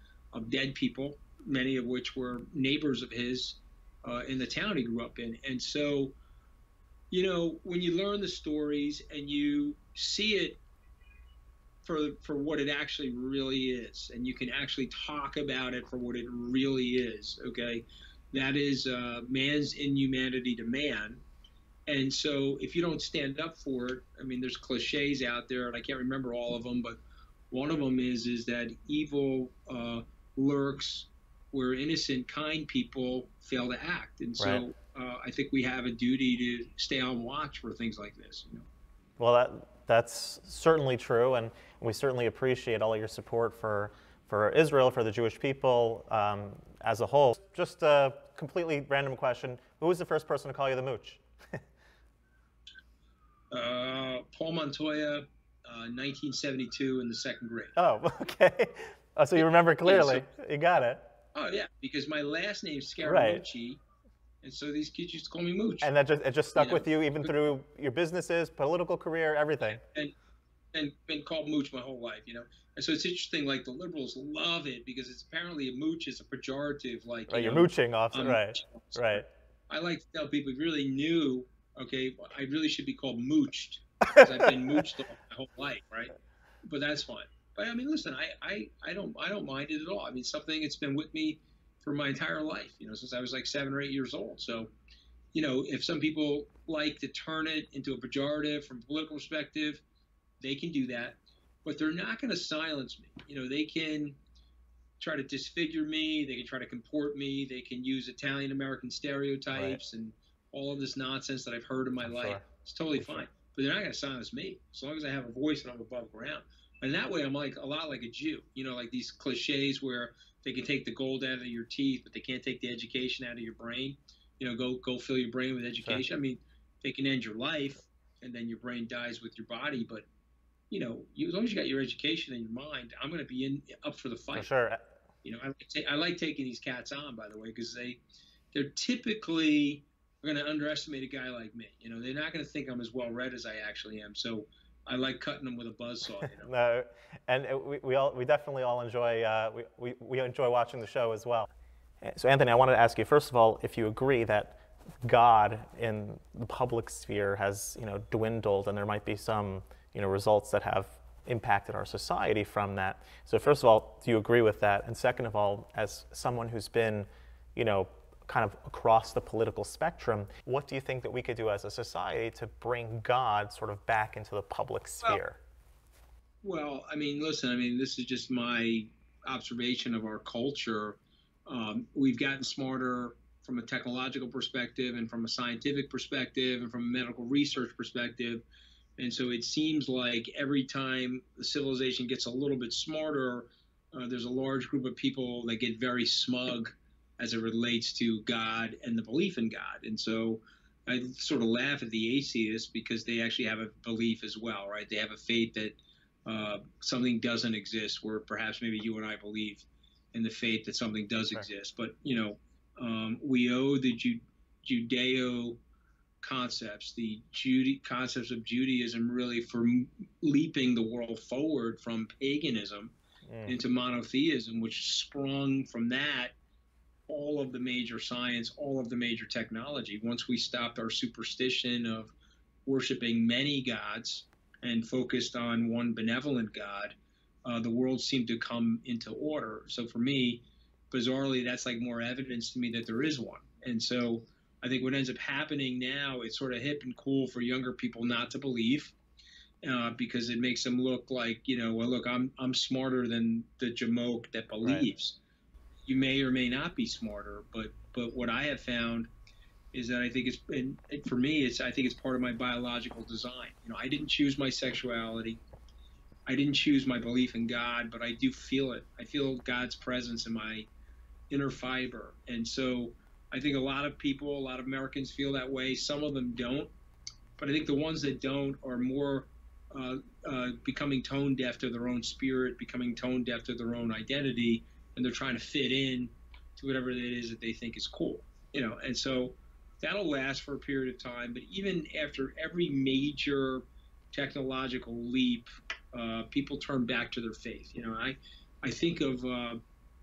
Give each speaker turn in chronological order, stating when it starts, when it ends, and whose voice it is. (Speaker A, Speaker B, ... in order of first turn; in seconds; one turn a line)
Speaker A: 0.3-6.1
Speaker A: 7.1-10.6
Speaker A: 11.8-21.2
Speaker A: 21.9-27.0
Speaker A: 27.5-38.6
Speaker B: 34.4-34.6
Speaker B: 39.2-51.6
Speaker A: 53.5-57.7
Speaker B: 57.8-61.0
Speaker A: 59.4-60.2
Speaker A: 61.3-63.8
Speaker B: 63.0-63.4
Speaker A: 64.4-65.9
Speaker B: 65.8-69.8
Speaker A: 66.5-67.3
Speaker A: 69.7-70.1
Speaker A: 70.7-94.7
Speaker B: 77.3-79.2
Speaker A: 95.3-99.8
Speaker A: 100.4-104.2
Speaker A: 105.0-130.1
Speaker B: 109.5-109.8
Speaker B: 112.0-112.4
Speaker B: 113.0-113.3
Speaker A: 130.7-134.5
Speaker B: 134.3-134.8
Speaker A: 135.2-138.0
Speaker A: 138.5-146.5
Speaker B: 146.2-151.5
Speaker B: 152.0-175.4
Speaker A: 176.4-188.4
Speaker A: 189.0-215.6
Speaker A: 216.2-222.9
Speaker B: 223.3-223.6
Speaker A: 223.4-226.3
Speaker A: 227.1-232.1
Speaker A: 232.7-248.9
Speaker A: 249.6-255.2
Speaker A: 255.9-259.1
Speaker A: 259.7-265.4
Speaker A: 266.3-270.7
Speaker A: 271.3-276.7
Speaker A: 277.4-299.6